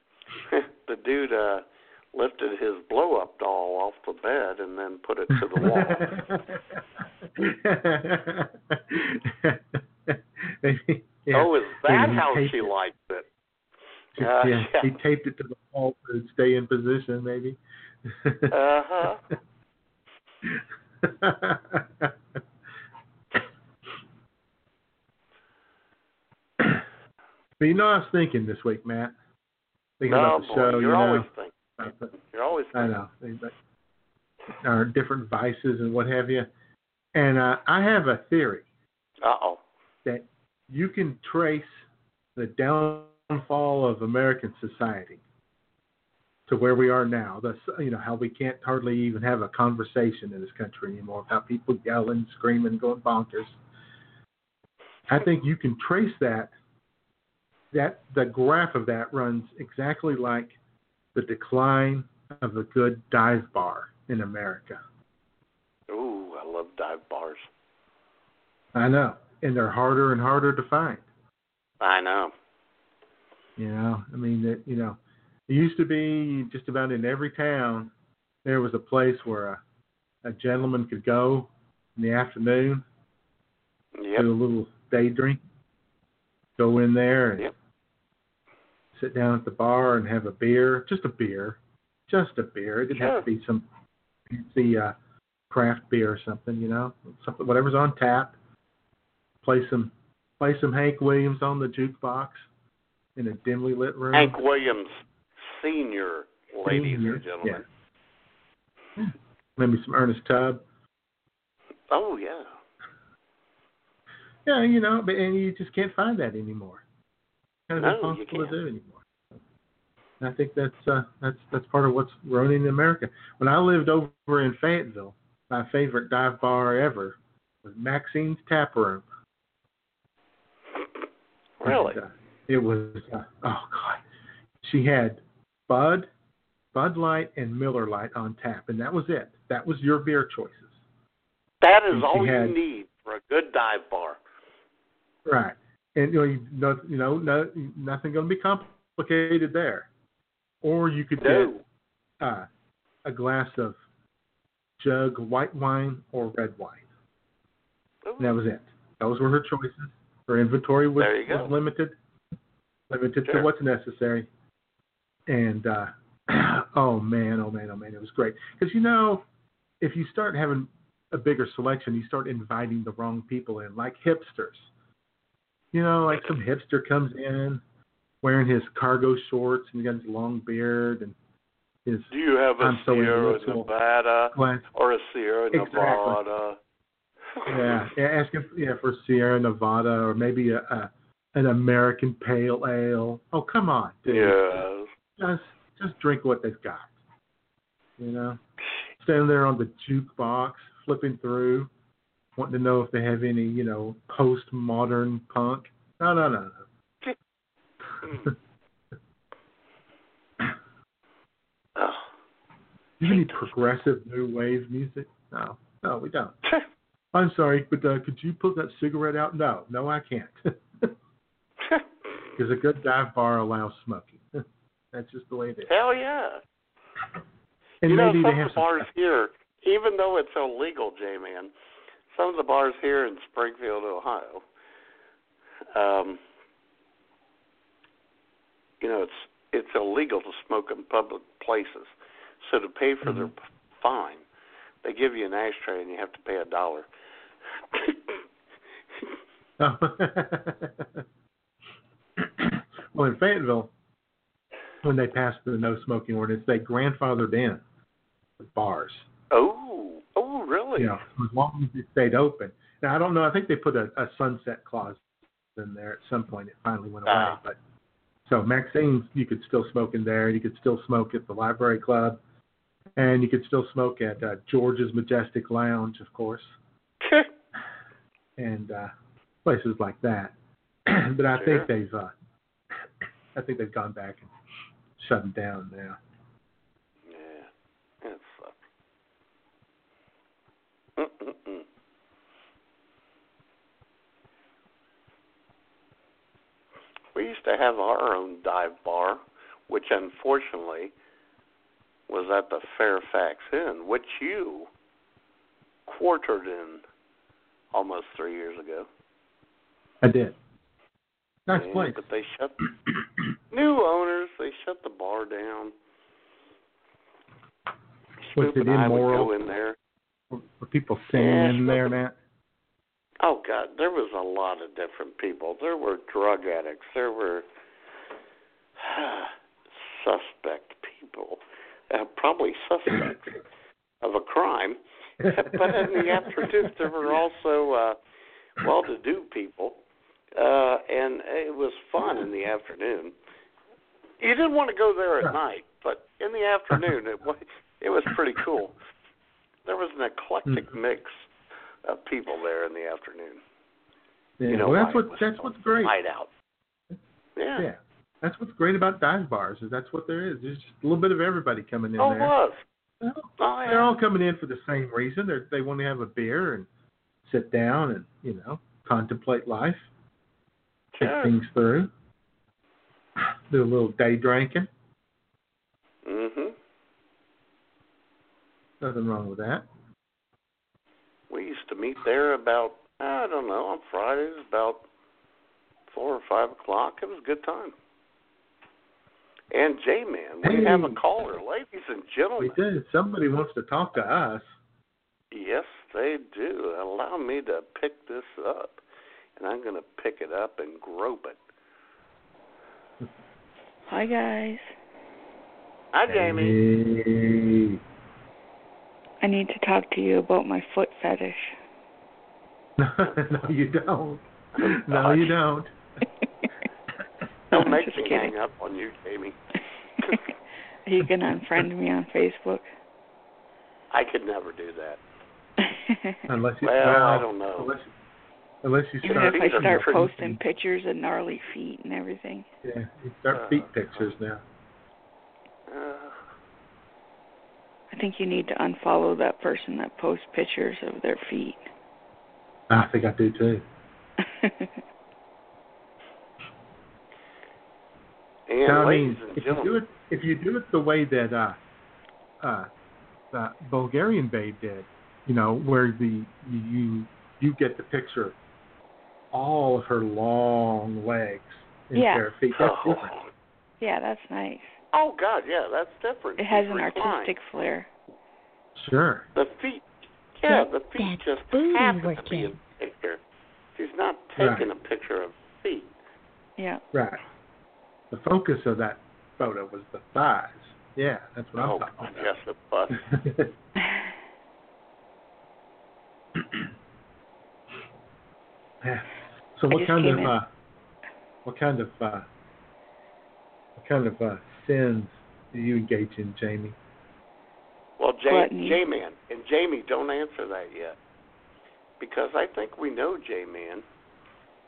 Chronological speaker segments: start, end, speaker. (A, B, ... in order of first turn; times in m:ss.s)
0:00.5-0:06.1 A
0:05.5-0:06.8 B
0:07.4-0:12.7 B
0:11.3-0:13.3 A
0:14.2-0:18.5 B
0:14.2-0:14.9 A
0:18.5-0:19.2 A
0:20.4-0:22.1 B
0:27.6-0:29.1 B
0:30.0-0:31.3 B
0:30.1-0:33.0 A
0:31.8-0:32.1 B
0:32.7-0:33.5 B
0:34.6-0:36.5 B
0:37.1-0:38.6 B
0:39.2-0:39.6 A
0:40.0-0:41.8 B
0:42.4-0:45.2 B
0:46.5-0:53.6 B
0:55.1-0:56.5 B
0:57.7-1:00.6 B
1:01.1-1:04.8 B
1:05.9-1:07.5 A
1:08.7-1:11.0 B
1:11.8-1:12.3 A
1:13.6-1:17.9 B
1:18.4-1:19.6 B
1:20.2-1:22.8 B
1:24.0-1:24.3 A
1:24.2-1:25.4 B
1:26.6-1:27.5 B
1:28.9-1:33.6 B
1:32.9-1:33.2 A
1:34.3-1:34.9 B
1:35.5-1:38.3 B
1:39.4-1:42.5 B
1:43.2-1:44.4 B
1:44.1-1:47.6 A
1:46.6-1:47.6 B
1:49.0-1:50.6 B
1:51.9-1:52.6 A
1:54.4-1:56.8 B
1:57.7-1:59.1 B
1:57.8-1:58.5 A
2:00.2-2:09.0 B
2:11.6-2:12.0 A
2:11.6-2:14.0 B
2:14.6-2:16.1 B
2:16.7-2:20.7 B
2:21.6-2:24.2 A
2:21.9-2:22.6 B
2:25.2-2:29.9 B
2:30.6-2:31.6 B
2:31.2-2:31.6 A
2:32.2-2:32.5 B
2:33.0-2:33.8 B
2:34.8-2:36.8 B
2:38.0-2:38.4 A
2:38.2-2:42.0 B
2:41.0-2:41.5 A
2:42.9-2:44.3 B
2:45.3-2:49.2 B
2:49.8-2:54.7 B
2:55.7-2:57.6 B
2:58.2-3:01.2 B
3:01.8-3:03.7 B
3:02.1-3:06.6 A
3:04.3-3:04.6 B
3:05.5-3:06.2 B
3:07.4-3:07.9 A
3:07.4-3:14.6 B
3:14.1-3:14.9 A
3:15.2-3:16.9 B
3:18.0-3:18.4 B
3:19.0-3:21.7 B
3:22.4-3:26.6 B
3:31.8-3:32.1 A
3:33.0-3:36.3 B
3:33.0-3:33.6 A
3:37.1-3:40.9 B
3:42.4-3:44.4 B
3:44.9-3:45.7 B
3:45.6-3:46.4 A
3:47.8-3:48.9 B
3:47.8-3:51.5 A
3:52.1-3:54.4 A
3:55.7-3:56.2 A
3:58.8-4:04.2 A
4:03.0-4:03.3 B
4:04.8-4:06.9 A
4:07.7-4:08.2 A
4:09.6-4:11.0 B
4:12.2-4:13.7 B
4:14.8-4:17.6 B
4:18.4-4:19.1 B
4:19.3-4:21.0 A
4:20.8-4:25.0 B
4:25.5-4:27.6 B
4:27.0-4:27.4 A
4:28.2-4:32.2 B
4:33.0-4:36.5 B
4:37.0-4:37.3 A
4:38.4-4:38.9 B
4:39.4-4:40.3 B
4:40.8-4:42.1 B
4:41.3-4:41.7 A
4:43.3-4:44.3 B
4:45.0-4:46.0 B
4:47.1-4:47.5 A
4:48.0-4:48.6 A
4:51.0-4:51.6 A
4:57.1-5:00.9 A
5:02.1-5:04.7 A
5:05.9-5:06.8 A
5:07.7-5:08.9 A
5:10.0-5:10.4 B
5:11.5-5:12.0 B
5:11.5-5:12.6 A
5:13.5-5:15.7 A
5:18.2-5:19.8 A
5:18.3-5:19.5 B
5:20.3-5:22.2 B
5:21.1-5:21.9 A
5:23.2-5:27.4 A
5:28.8-5:33.4 A
5:34.0-5:38.0 A
5:35.2-5:36.7 B
5:38.6-5:39.8 A
5:40.4-5:43.1 A
5:44.2-5:48.8 A
5:49.6-5:51.3 A
5:50.5-5:50.8 B
5:51.8-5:53.4 A
5:54.4-5:55.9 B
5:54.5-5:56.3 A
5:57.4-5:57.6 A
5:57.6-6:02.3 B
6:02.0-6:02.6 A
6:03.0-6:06.7 B
6:03.4-6:04.0 A
6:07.2-6:09.9 B
6:10.9-6:11.3 A
6:11.0-6:11.9 B
6:13.2-6:14.7 B
6:16.0-6:16.6 A
6:18.8-6:19.7 B
6:21.3-6:24.8 A
6:25.9-6:27.7 A
6:29.5-6:32.6 A
6:30.4-6:31.0 B
6:32.4-6:34.5 B
6:35.3-6:38.8 A
6:39.4-6:41.4 A
6:43.9-6:44.7 C
6:45.9-6:46.6 A
6:46.1-6:47.8 B
6:49.2-6:51.6 C
6:52.8-6:55.7 B
6:54.6-6:55.3 A
6:57.5-6:59.4 A
6:57.5-6:58.3 C
7:00.8-7:02.7 C
7:03.9-7:05.0 A
7:05.6-7:06.2 C
7:06.3-7:07.9 B
7:06.6-7:07.7 A
7:08.6-7:10.4 B
7:09.0-7:10.0 A
7:09.0-7:12.5 C
7:12.6-7:14.4 B
7:13.3-7:14.1 A
7:15.7-7:16.2 A
7:17.9-7:21.6 C
7:22.7-7:23.6 B
7:24.2-7:24.8 C
7:28.5-7:29.8 A
7:28.6-7:31.6 B
7:32.4-7:32.7 B
7:33.3-7:38.4 B
7:39.3-7:43.2 B
7:41.9-7:42.3 C
7:42.5-7:43.3 A
7:43.8-7:44.8 C
7:44.9-7:47.3 A
7:46.4-7:47.9 C
7:48.7-7:49.3 B
7:49.3-7:53.2 A
7:53.7-7:55.9 A
7:54.4-7:54.7 B
7:56.6-7:56.8 C
7:56.9-7:57.2 B
7:58.1-8:02.3 B
8:01.6-8:03.0 A
8:03.0-8:03.5 B
8:03.8-8:04.0 C
8:08.8-8:10.5 B
8:09.7-8:10.4 C
8:11.4-8:12.2 B
8:13.8-8:16.8 B
8:18.0-8:21.0 A
8:18.2-8:18.8 C
8:22.0-8:23.8 A